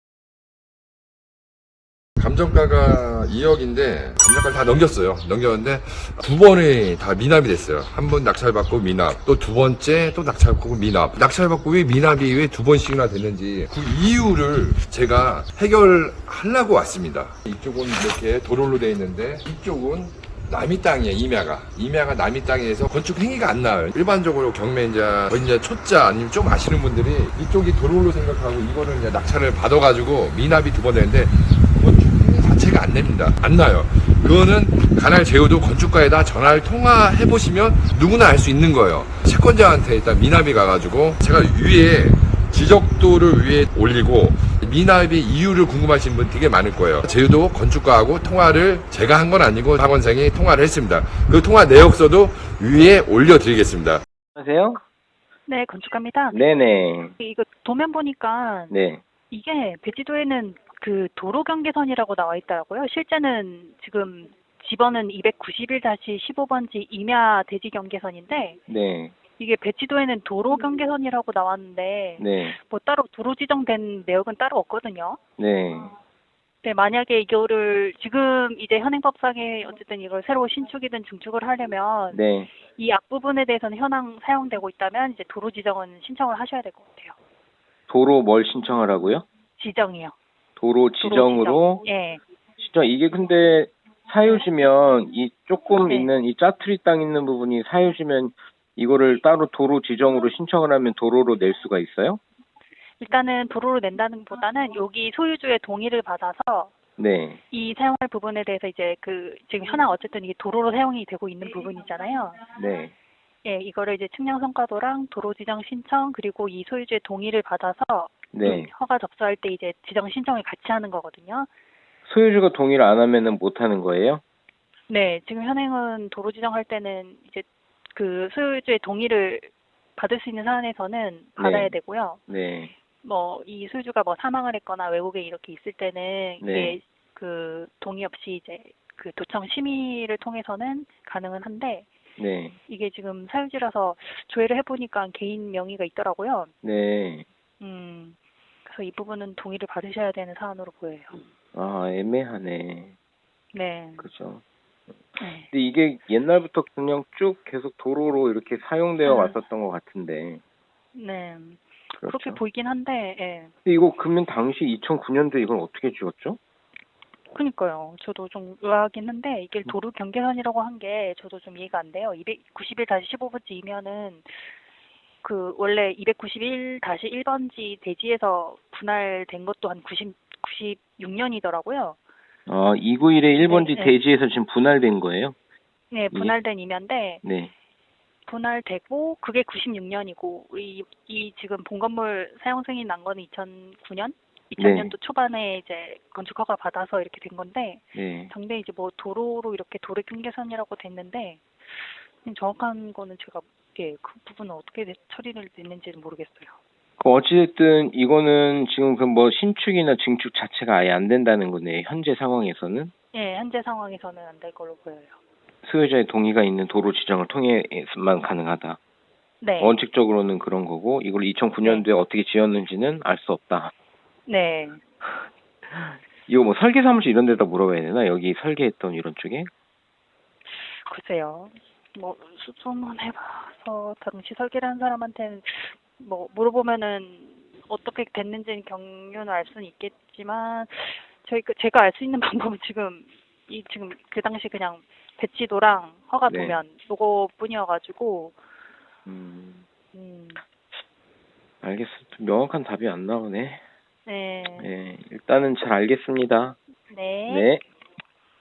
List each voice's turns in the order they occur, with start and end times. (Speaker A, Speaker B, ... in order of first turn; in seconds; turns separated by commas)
Speaker A: 2.2-54.0, Speaker B: 54.3-54.8, Speaker C: 55.5-56.4, Speaker B: 56.3-57.1, Speaker C: 57.2-58.8, Speaker B: 58.7-59.0, Speaker C: 59.3-68.6, Speaker B: 68.7-69.2, Speaker C: 69.3-75.2, Speaker B: 72.2-72.5, Speaker B: 75.4-75.9, Speaker C: 76.6-87.1, Speaker B: 82.1-82.5, Speaker B: 87.9-89.2, Speaker C: 89.6-90.2, Speaker B: 90.6-91.8, Speaker C: 91.0-92.2, Speaker B: 92.6-102.2, Speaker C: 95.8-96.1, Speaker C: 103.0-106.7, Speaker B: 107.0-107.4, Speaker C: 107.5-112.5, Speaker B: 112.5-112.9, Speaker C: 113.4-121.5, Speaker B: 118.3-118.7, Speaker B: 122.0-124.2, Speaker C: 124.9-132.2, Speaker B: 131.4-131.7, Speaker B: 132.3-132.7, Speaker C: 133.0-141.9, Speaker B: 136.4-136.8, Speaker B: 142.2-142.6, Speaker C: 142.7-146.5, Speaker B: 146.6-147.2, Speaker C: 147.6-151.2, Speaker B: 151.5-152.9, Speaker C: 153.5-154.1, Speaker B: 154.0-154.4, Speaker C: 155.2-155.5, Speaker B: 155.4-160.4, Speaker C: 159.0-159.4, Speaker C: 160.9-163.5, Speaker B: 162.0-162.4, Speaker B: 163.7-166.4, Speaker C: 167.3-174.4, Speaker C: 175.2-182.0, Speaker B: 182.5-185.3, Speaker C: 183.4-184.0, Speaker C: 185.9-187.2, Speaker B: 187.2-187.5, Speaker C: 188.3-206.5, Speaker B: 194.6-194.9, Speaker B: 197.9-198.3, Speaker B: 207.0-212.9, Speaker C: 213.1-215.2, Speaker B: 215.6-218.8, Speaker C: 219.4-219.8, Speaker B: 219.6-223.7, Speaker C: 221.6-221.9, Speaker C: 224.3-224.8, Speaker B: 225.7-229.5, Speaker C: 230.5-248.3, Speaker B: 246.3-246.6, Speaker B: 249.1-249.6, Speaker C: 249.9-250.4, Speaker B: 251.6-253.6, Speaker C: 254.1-254.7, Speaker B: 254.6-256.6, Speaker C: 256.9-257.5, Speaker B: 257.3-257.6